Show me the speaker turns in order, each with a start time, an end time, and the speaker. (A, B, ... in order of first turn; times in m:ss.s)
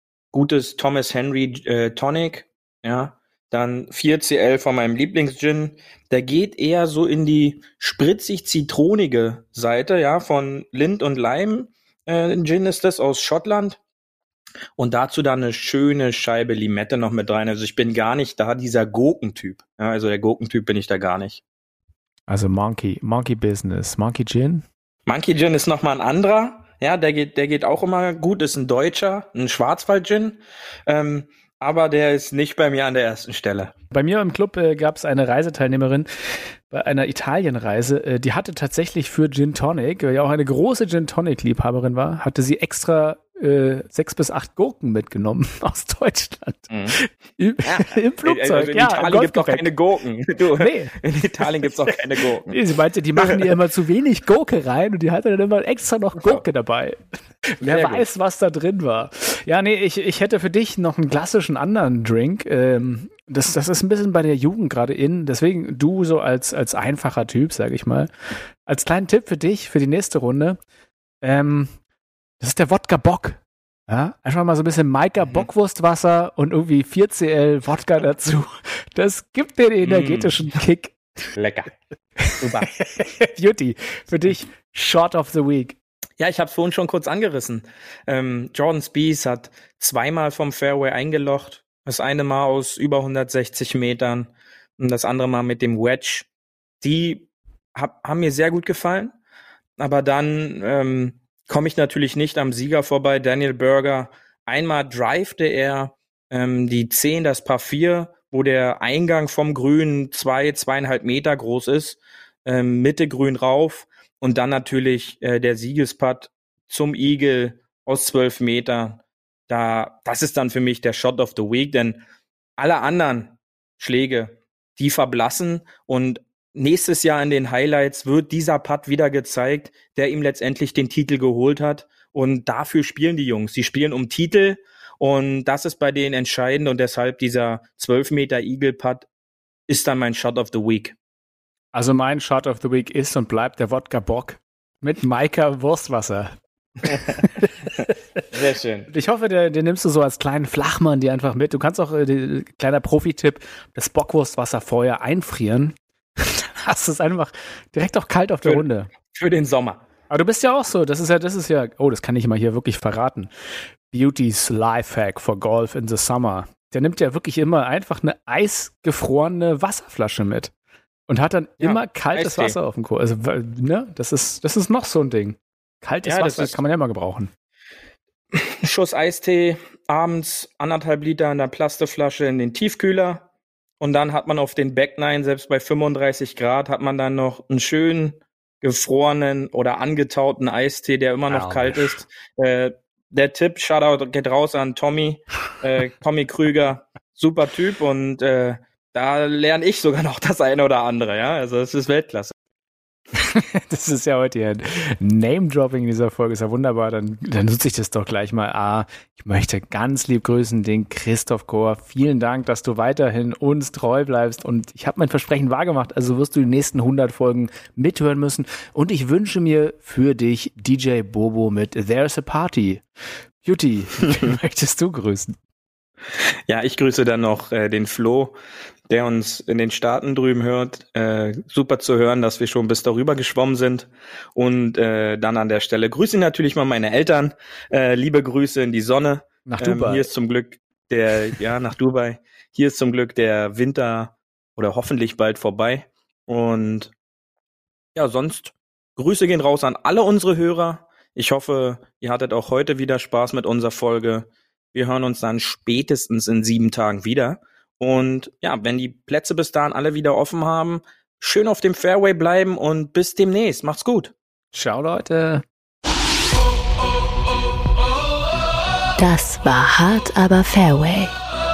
0:00.3-0:13.8 A
0:14.8-0:21.4 A
0:22.3-0:24.6 B
0:25.1-0:33.7 A
0:33.9-0:36.1 B
0:36.7-0:49.7 B
0:46.7-0:47.0 A
0:47.6-0:52.6 A
0:50.5-0:50.9 B
0:52.5-0:57.0 B
0:53.2-0:53.5 A
0:57.6-1:08.1 B
0:57.6-0:58.0 A
1:08.6-1:10.6 B
1:11.2-1:11.7 B
1:12.4-1:21.2 B
1:19.8-1:20.4 A
1:21.3-1:21.7 A
1:22.2-1:25.8 B
1:22.4-1:22.8 A
1:26.2-1:36.3 A
1:36.8-1:39.1 A
1:39.8-2:02.0 A
2:02.6-2:19.1 A
2:19.7-2:21.0 A
2:21.7-2:27.7 B
2:28.3-2:28.9 A
2:28.9-2:38.9 B
2:38.4-2:39.8 A
2:40.1-2:43.3 B
2:43.9-2:50.5 B
2:51.1-2:57.3 B
2:51.6-2:52.6 A
2:56.0-2:56.6 A
2:58.3-3:03.2 A
3:03.8-3:22.3 A
3:11.3-3:11.9 B
3:23.1-3:42.8 B
3:43.4-3:45.4 B
3:46.2-3:48.4 A
3:48.9-4:06.9 A
3:59.4-4:00.1 B
4:07.9-4:24.1 A
4:24.5-4:25.4 B
4:29.0-4:31.1 C